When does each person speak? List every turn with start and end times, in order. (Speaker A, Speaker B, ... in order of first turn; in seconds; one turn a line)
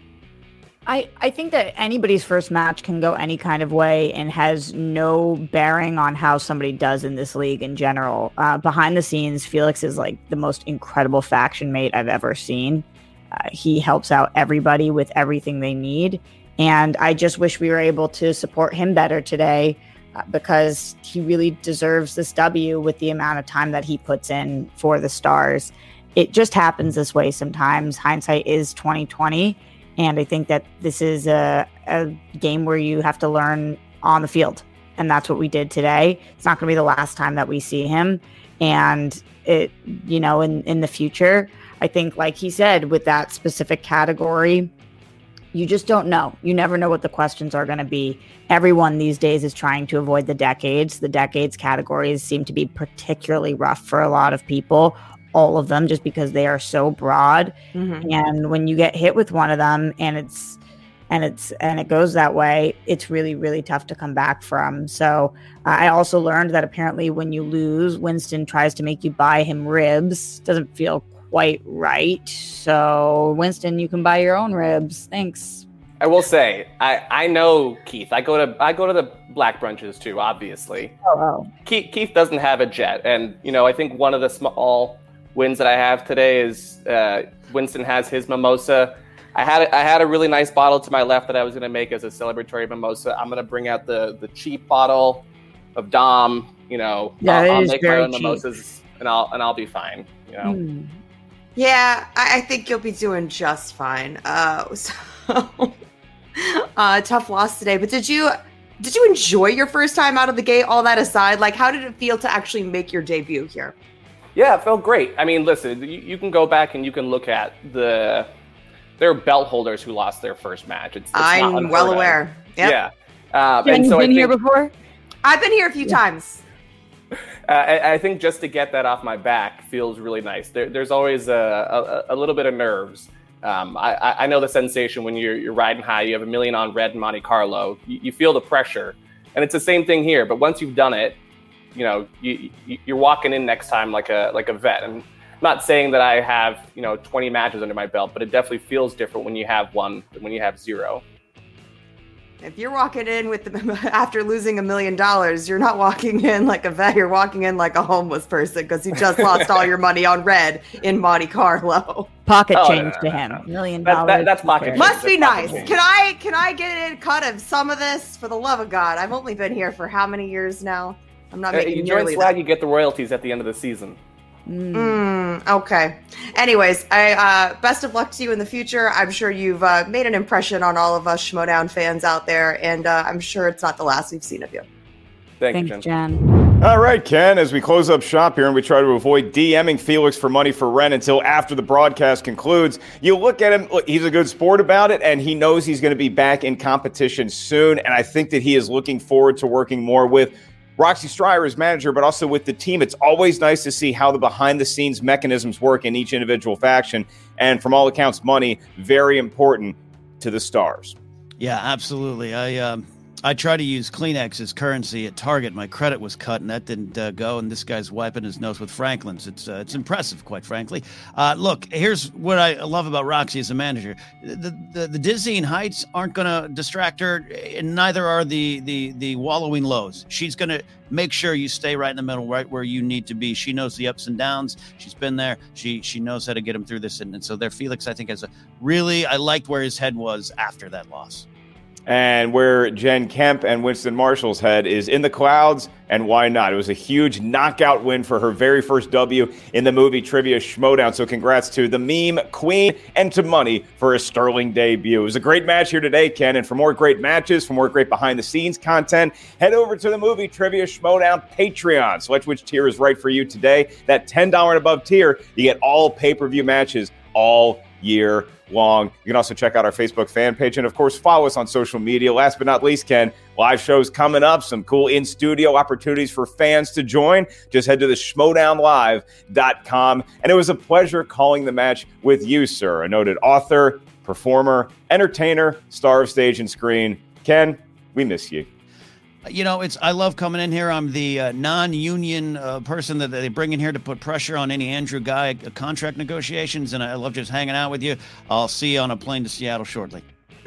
Speaker A: 0.8-44.7
Speaker A: 45.5-60.6
Speaker B: 57.7-58.1
Speaker A: 61.1-75.6
Speaker C: 76.0-80.9
Speaker A: 81.0-81.5
Speaker C: 81.6-95.2
Speaker C: 95.8-100.6
Speaker A: 97.2-98.4
Speaker A: 100.4-101.0
Speaker B: 101.5-105.7
Speaker B: 106.3-113.7
Speaker C: 114.3-118.3
Speaker C: 119.0-124.3
Speaker B: 121.1-122.8
Speaker A: 123.6-124.7
Speaker B: 125.2-126.4
Speaker C: 127.5-141.2
Speaker C: 141.7-151.0
Speaker B: 152.4-162.1
Speaker A: 162.2-165.8
Speaker C: 162.5-165.8
Speaker B: 164.7-172.3
Speaker C: 171.5-174.0
Speaker A: 174.5-175.0
Speaker B: 174.7-184.6
Speaker C: 185.4-185.8
Speaker A: 185.5-186.2
Speaker D: 186.6-210.9
Speaker E: 211.4-241.3
Speaker D: 241.9-288.5
Speaker E: 289.2-300.1